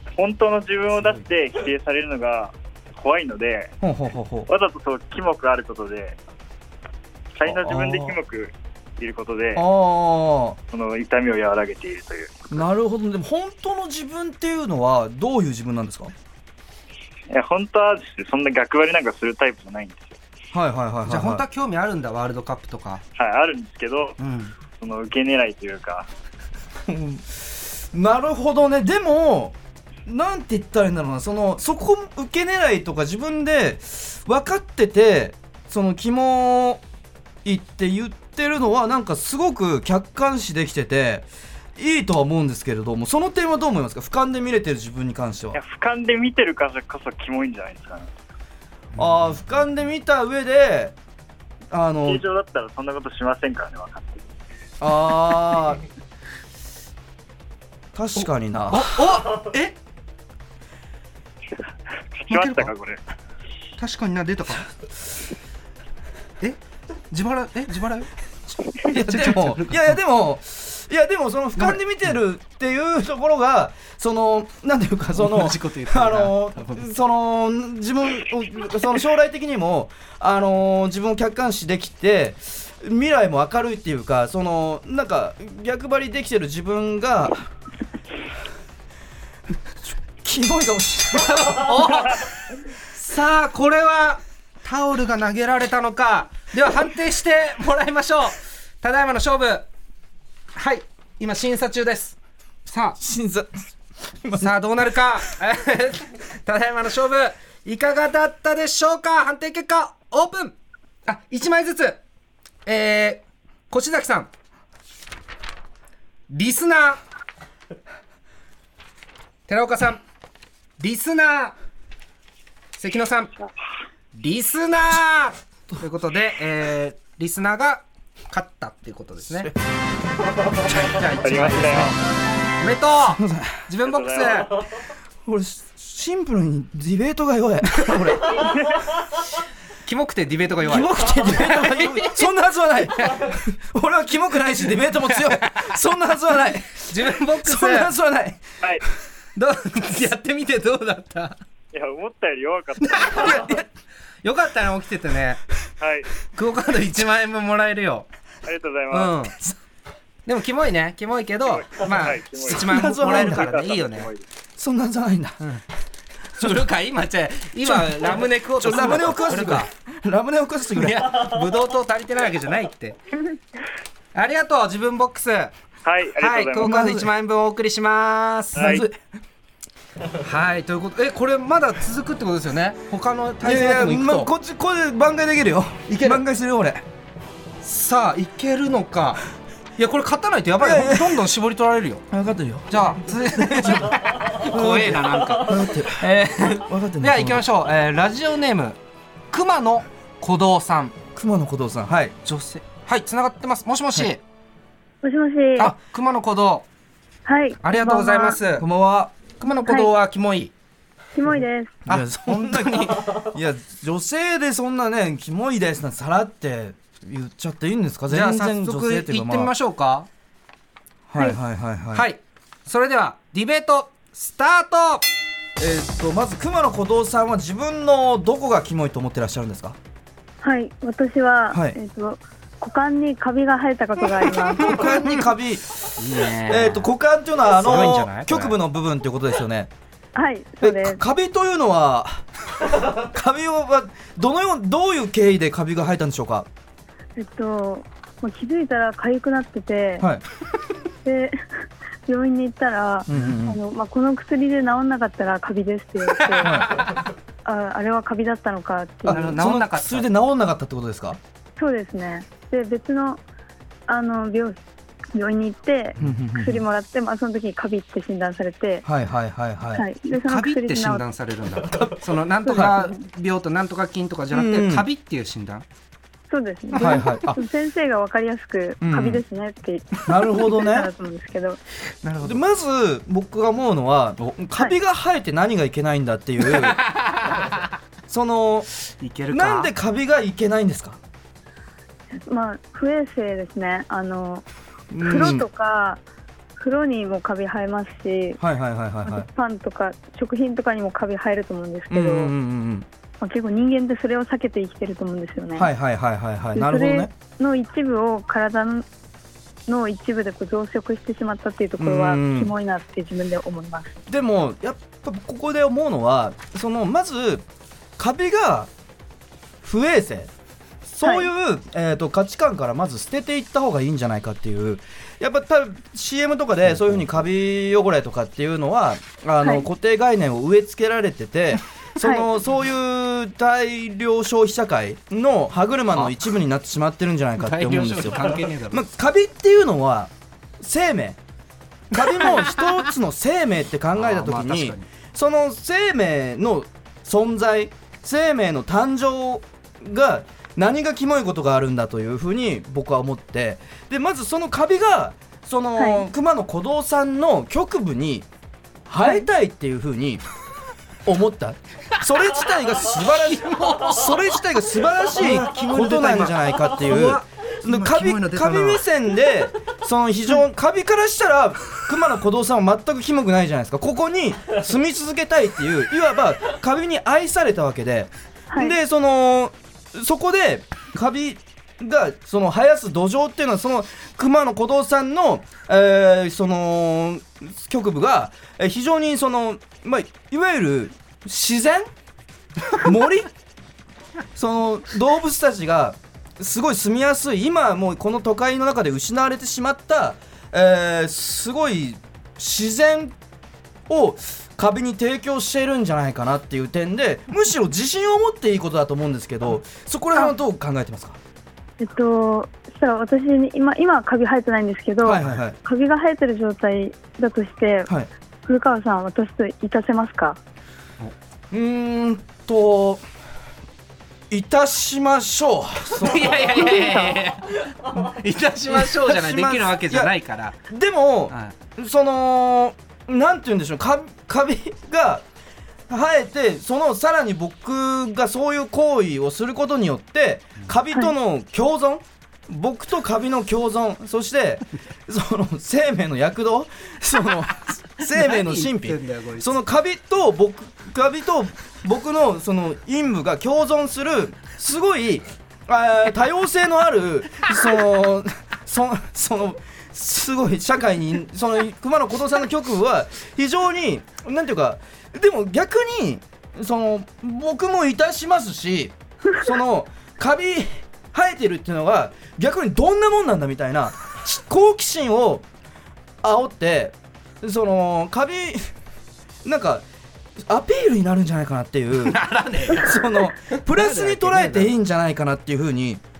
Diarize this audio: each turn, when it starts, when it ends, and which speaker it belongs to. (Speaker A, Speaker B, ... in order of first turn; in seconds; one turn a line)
Speaker A: 0.2-3.8
Speaker B: 3.8-4.5
Speaker A: 4.5-6.2
Speaker A: 7.3-9.7
Speaker B: 7.4-8.2
Speaker B: 9.5-10.6
Speaker A: 10.7-12.6
Speaker B: 12.5-16.1
Speaker A: 17.3-20.2
Speaker B: 20.5-21.4
Speaker C: 21.1-23.0
Speaker A: 23.2-24.2
Speaker C: 24.2-24.5
Speaker A: 24.8-26.1
Speaker B: 26.9-29.5
Speaker B: 30.1-36.8
Speaker B: 37.4-45.6
Speaker A: 45.5-48.1
Speaker B: 48.9-50.9
Speaker B: 51.7-52.2
Speaker A: 52.0-54.3
Speaker B: 54.8-55.8
Speaker B: 57.9-59.0
Speaker C: 58.2-59.8
Speaker A: 62.2-63.0
Speaker C: 62.3-62.7
Speaker C: 63.8-64.6
Speaker C: 67.1-68.1
Speaker C: 68.8-70.0
Speaker B: 68.8-87.5
Speaker C: 75.2-76.9
Speaker B: 89.8-92.0
Speaker C: 91.2-92.2
Speaker C: 92.9-99.7
Speaker C: 100.5-103.0
Speaker B: 103.0-103.7
Speaker B: 104.2-105.2
Speaker C: 104.4-112.0
Speaker C: 112.6-114.3
Speaker C: 116.3-117.0
Speaker C: 119.5-120.0
Speaker C: 120.8-121.5
Speaker C: 122.8-123.3
Speaker C: 124.1-129.5
Speaker C: 130.6-131.9
Speaker A: 131.2-131.9
Speaker C: 132.6-134.6
Speaker B: 133.1-133.7
Speaker A: 133.8-134.5
Speaker B: 135.2-138.5
Speaker A: 138.3-138.8
Speaker C: 139.8-142.2
Speaker B: 140.6-148.4
Speaker C: 143.0-143.3
Speaker C: 145.1-145.7
Speaker C: 146.9-147.9
Speaker C: 149.3-151.3
Speaker A: 151.7-153.5
Speaker C: 152.8-153.1
Speaker B: 153.1-153.6
Speaker C: 154.2-155.4
Speaker A: 155.8-156.2
Speaker C: 156.3-158.1
Speaker A: 158.4-159.2
Speaker C: 158.9-159.3
Speaker C: 160.2-164.1
Speaker A: 161.4-164.2
Speaker B: 162.5-163.5
Speaker B: 164.6-165.4
Speaker C: 166.4-169.7
Speaker B: 167.6-171.3
Speaker C: 170.7-173.0
Speaker C: 174.1-175.5
Speaker A: 175.8-176.8
Speaker C: 176.2-178.8
Speaker B: 176.6-177.1
Speaker A: 178.5-178.8
Speaker B: 178.6-179.0
Speaker C: 180.2-184.3
Speaker B: 183.4-186.8
Speaker C: 185.9-186.2
Speaker C: 187.6-189.2
Speaker C: 189.8-192.0
Speaker B: 190.6-191.2
Speaker B: 192.1-197.4
Speaker C: 192.7-198.8
Speaker C: 199.3-201.0
Speaker B: 201.1-202.2
Speaker C: 202.2-204.2
Speaker D: 205.0-205.7
Speaker C: 205.6-206.7
Speaker D: 207.2-208.4
Speaker C: 207.6-208.7
Speaker B: 208.6-209.1
Speaker C: 209.3-210.5
Speaker D: 209.6-209.9
Speaker D: 211.1-211.8
Speaker B: 211.9-219.5
Speaker C: 211.9-213.3
Speaker C: 218.1-220.1
Speaker B: 221.1-222.1
Speaker C: 221.9-225.0
Speaker B: 225.6-229.8
Speaker D: 230.4-234.8
Speaker B: 231.5-231.8
Speaker B: 234.6-239.7
Speaker C: 236.0-236.9
Speaker C: 237.5-238.6
Speaker D: 240.1-241.0
Speaker B: 240.6-242.2
Speaker B: 242.8-246.5
Speaker D: 247.2-250.1
Speaker D: 251.0-256.9
Speaker B: 253.1-253.6
Speaker C: 256.2-256.5
Speaker B: 256.4-256.8
Speaker D: 257.4-259.3
Speaker B: 259.1-261.2
Speaker C: 259.1-260.1
Speaker D: 261.6-263.2
Speaker D: 263.9-264.6
Speaker D: 265.1-268.9
Speaker B: 266.0-266.6
Speaker B: 268.8-269.8
Speaker D: 269.7-271.1
Speaker C: 270.1-275.6
Speaker D: 272.4-273.0
Speaker B: 272.5-272.8
Speaker B: 274.3-274.9
Speaker D: 276.3-281.6
Speaker B: 276.8-277.4
Speaker B: 278.8-279.2
Speaker B: 280.1-280.9
Speaker C: 282.0-282.4
Speaker B: 282.2-286.8
Speaker C: 286.5-287.7
Speaker B: 288.1-288.7
Speaker C: 289.0-289.7
Speaker B: 289.3-291.0
Speaker D: 292.2-294.4
Speaker B: 294.9-295.4
Speaker D: 295.0-296.0
Speaker D: 296.6-298.4
Speaker B: 298.4-299.3
Speaker D: 299.1-302.3
Speaker B: 301.9-302.9
Speaker D: 303.2-305.7
Speaker B: 305.6-307.1
Speaker D: 306.5-308.9
Speaker D: 309.7-313.9
Speaker B: 311.8-312.5
Speaker B: 314.1-317.4
Speaker B: 318.0-318.7
Speaker B: 319.6-320.3
Speaker B: 320.9-341.2
Speaker D: 321.0-321.3
Speaker D: 332.0-332.3
Speaker C: 337.4-338.8
Speaker B: 341.9-358.3
Speaker C: 342.1-342.4
Speaker C: 344.0-344.9
Speaker D: 355.8-356.1
Speaker B: 358.9-360.2
Speaker B: 361.0-391.9
Speaker C: 363.4-364.1
Speaker C: 365.1-368.8
Speaker D: 378.5-378.8
Speaker B: 392.7-393.3
Speaker B: 394.3-403.1
Speaker B: 403.9-411.2
Speaker D: 411.8-417.9
Speaker B: 415.0-415.6
Speaker D: 418.4-420.4
Speaker B: 421.5-423.0
Speaker B: 424.3-426.6
Speaker C: 425.9-430.6
Speaker D: 426.6-427.2
Speaker B: 428.7-430.1
Speaker B: 430.7-435.2
Speaker B: 435.9-475.4
Speaker C: 448.1-449.5
Speaker B: 476.2-478.7
Speaker B: 479.4-479.8
Speaker B: 480.4-486.0
Speaker C: 482.0-484.7